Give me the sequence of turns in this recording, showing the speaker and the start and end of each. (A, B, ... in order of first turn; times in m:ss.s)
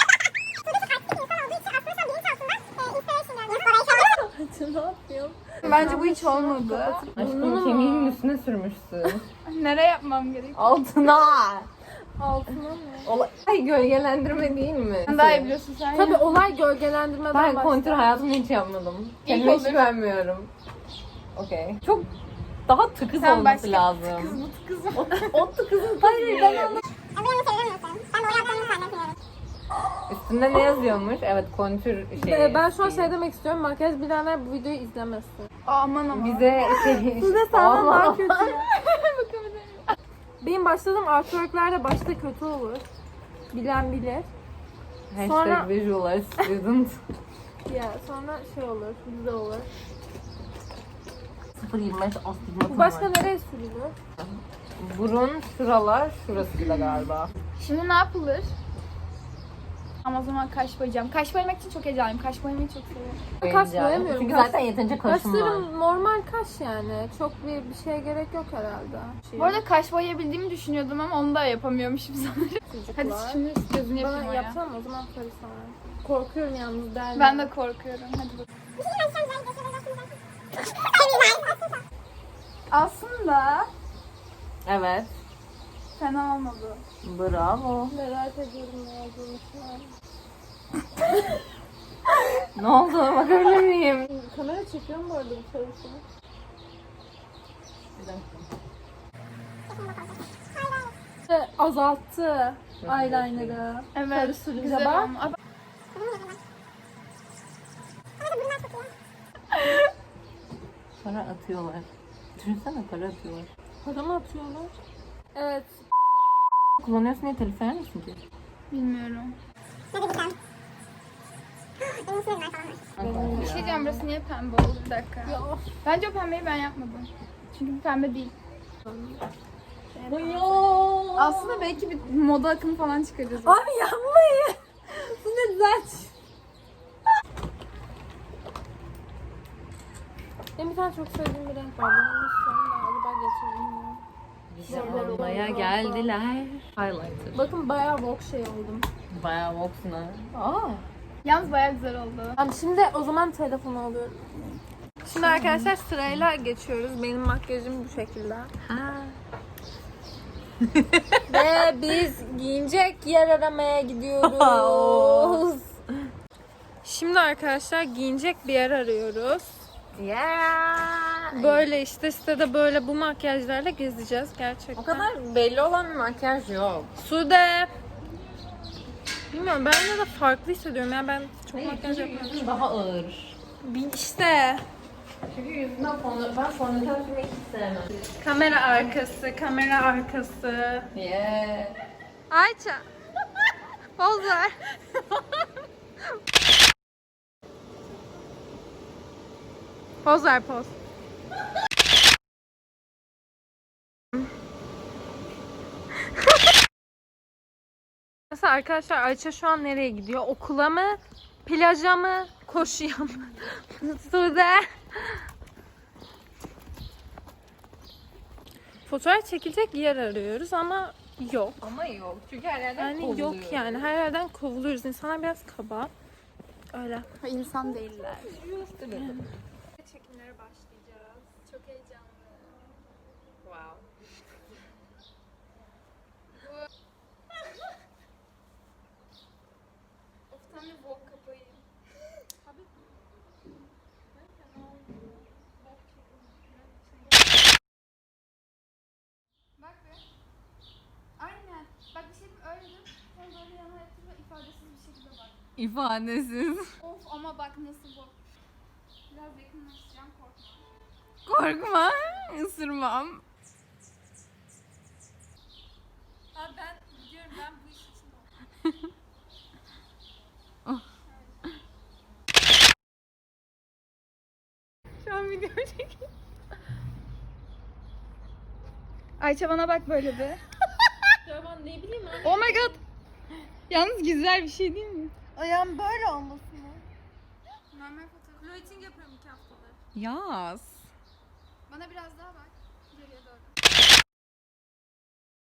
0:03.1-0:08.2 A
0:05.6-0:06.0 B
0:05.6-0:07.1 C
0:07.2-0:09.2 B
0:09.4-0:11.0 C
0:10.6-0:11.7 B
0:12.2-0:13.1 A
0:13.0-0:15.5 B
0:15.1-0:16.4 C
0:15.9-0:18.1 A
0:17.3-0:20.5 B
0:19.2-0:19.9 C
0:21.3-0:21.9 B
0:22.7-0:24.4 B
0:23.2-0:25.5 C
0:24.9-0:26.8 B
0:26.0-0:26.8 A
0:30.1-0:33.1 B
0:32.2-0:35.5 A
0:35.7-0:37.1 C
0:36.1-0:38.4 B
0:37.2-0:38.7 A
0:38.4-0:39.9 C
0:40.4-0:42.9 A
0:43.5-0:44.3 A
0:45.1-0:47.0 B
0:45.2-0:45.7 A
0:47.7-0:49.7 A
0:51.6-0:53.1 B
0:52.7-0:54.0 A
0:54.2-0:57.3 B
0:57.6-0:58.6 C
1:00.0-1:03.2 C
1:03.4-1:09.6 A
1:03.4-1:05.7 B
1:09.4-1:14.6 C
1:12.7-1:13.4 A
1:13.9-1:17.5 A
1:17.1-1:18.5 C
1:22.7-1:23.7 C
1:24.7-1:25.1 B
1:26.0-1:26.8 C
1:27.0-1:27.9 B
1:27.9-1:29.9 A
1:32.6-1:34.1 B
1:34.1-1:36.0 A
1:38.0-1:38.4 B
1:41.3-1:45.2 A
1:42.8-1:43.6 B
1:43.9-1:45.4 C
1:49.5-1:49.9 C
1:51.0-1:53.5 B
1:53.8-1:54.8 A
1:55.4-1:55.8 A
1:56.8-1:58.2 B
1:58.7-1:59.4 C
2:02.0-2:04.1 A
2:03.0-2:03.7 B
2:03.3-2:08.3 C
2:05.2-2:05.7 A
2:09.9-2:11.7 A
2:10.1-2:11.6 B
2:11.2-2:13.6 C
2:13.4-2:16.1 A
2:20.6-2:24.0 A
2:24.5-2:27.4 B
2:24.7-2:26.1 A
2:24.7-2:25.5 C
2:27.3-2:28.9 A
2:29.1-2:30.9 B
2:31.2-2:32.4 C
2:32.4-2:34.3 A
2:35.0-2:38.5 A
2:35.1-2:35.7 C
2:35.3-2:35.7 B
2:38.6-2:39.2 B
2:40.6-2:41.2 B
2:41.3-2:45.7 A
2:44.2-2:45.6 B
2:46.8-2:49.6 A
2:50.0-2:51.7 B
2:51.3-2:55.1 A
2:54.8-2:56.9 B
2:57.0-2:57.7 A
2:59.3-3:02.4 A
3:01.5-3:03.4 B
3:03.6-3:04.6 A
3:05.3-3:07.9 B
3:08.2-3:10.9 A
3:10.9-3:11.8 B
3:12.3-3:12.9 A
3:14.0-3:14.8 A
3:20.0-3:20.8 A
3:28.3-3:35.2 A
3:38.9-3:41.6 A
3:41.6-3:43.9 B
3:42.8-3:45.9 A
3:46.7-3:49.2 A
3:47.2-3:48.4 C
3:48.8-3:49.2 B
3:49.8-3:52.6 C
3:53.4-3:53.8 B
3:56.4-3:56.6 C
4:00.3-4:01.6 C
4:04.2-4:04.9 A
4:05.6-4:07.1 A
4:09.6-4:10.0 C
4:11.2-4:15.4 C
4:15.6-4:16.7 B
4:16.8-4:18.2 C
4:19.1-4:20.7 C
4:21.2-4:23.2 B
4:26.4-4:28.2 A
4:35.1-4:35.6 B
4:39.2-4:40.4 C
4:41.2-4:42.8 A
4:42.2-4:42.8 C
4:43.7-4:45.1 C
4:45.4-4:46.8 A
4:47.7-4:49.0 C
4:48.4-4:49.8 A
4:50.0-4:50.8 B
4:51.7-4:53.5 C